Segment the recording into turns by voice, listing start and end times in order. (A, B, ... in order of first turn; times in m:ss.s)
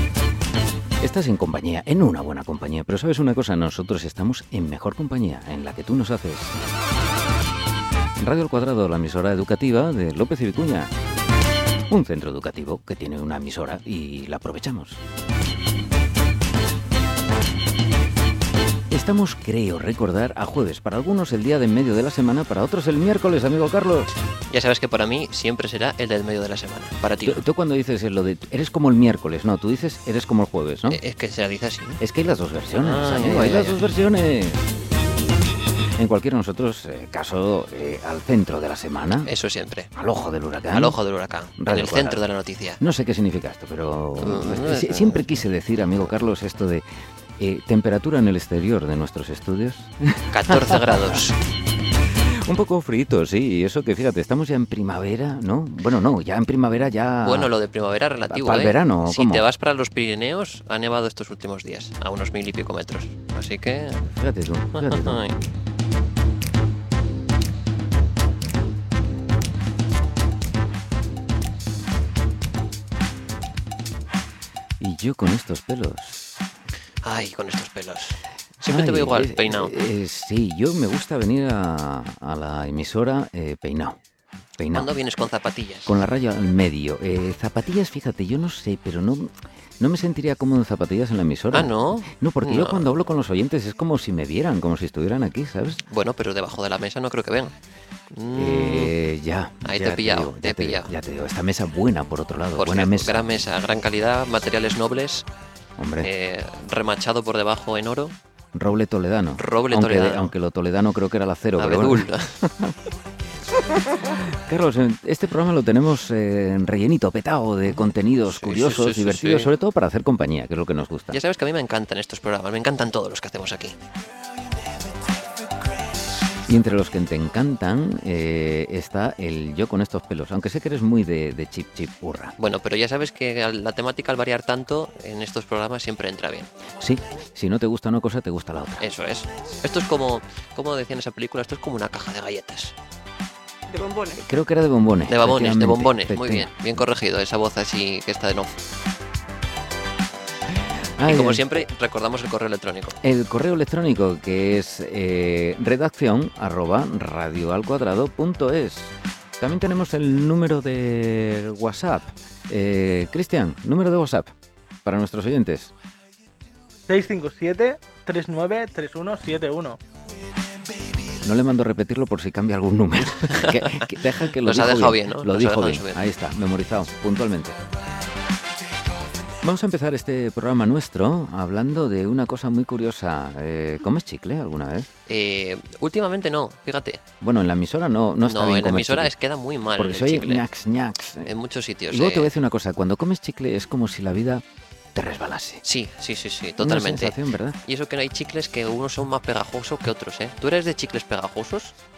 0:01.0-0:06.6 A
0:08.2-0:10.9 A
0:11.9-0:15.0 A
0:18.9-0:24.1 A
0:24.5-0:27.4 B
0:27.2-0:31.0 A
0:30.9-0:32.0 B
0:32.0-0:34.7 A
0:32.8-0:33.8 B
0:36.0-0:39.3 A
0:39.2-0:39.9 B
0:39.9-0:41.0 A
0:40.7-0:42.8 B
0:41.6-0:42.2 A
0:42.8-0:46.8 A
0:44.2-0:45.2 B
0:47.4-0:51.2 A
0:50.3-0:51.3 B
0:52.1-0:57.5 A
0:57.2-1:04.0 B
0:58.3-0:59.4 A
1:04.1-1:05.3 A
1:04.7-1:05.3 B
1:14.8-1:16.4 A
1:17.0-1:19.7 B
1:18.6-1:24.0 A
1:24.6-1:24.9 A
1:24.7-1:25.9 B
1:25.8-1:35.8 A
1:31.5-1:32.9 B
1:35.9-1:37.5 B
1:38.1-1:38.9 B
1:38.3-1:43.3 A
1:39.6-1:40.9 B
1:42.6-1:45.2 B
1:45.8-1:46.1 A
1:46.0-1:48.1 B
1:48.5-1:52.7 A
1:49.4-1:50.3 B
1:51.6-1:52.4 B
1:53.6-2:01.2 A
1:57.7-1:59.5 B
2:01.1-2:03.8 B
2:06.4-2:12.3 A
2:12.4-2:16.5 B
2:16.8-2:18.8 A
2:18.8-2:22.7 B
2:24.1-2:26.5 A
2:25.1-2:28.6 B
2:31.0-2:31.6 A
2:31.0-2:33.0 B
2:33.0-2:44.3 A
2:44.8-2:45.7 A
2:46.9-2:49.8 C
2:51.2-2:57.6 A
2:53.3-2:53.8 B
2:54.4-2:56.0 B
2:59.4-3:04.9 A
3:05.1-3:07.0 B
3:07.2-3:09.1 A
3:08.2-3:10.4 B
3:09.8-3:11.3 A
3:11.2-3:12.3 B
3:11.9-3:14.4 A
3:14.9-3:15.6 A
3:15.6-3:21.7 B
3:16.6-3:17.6 A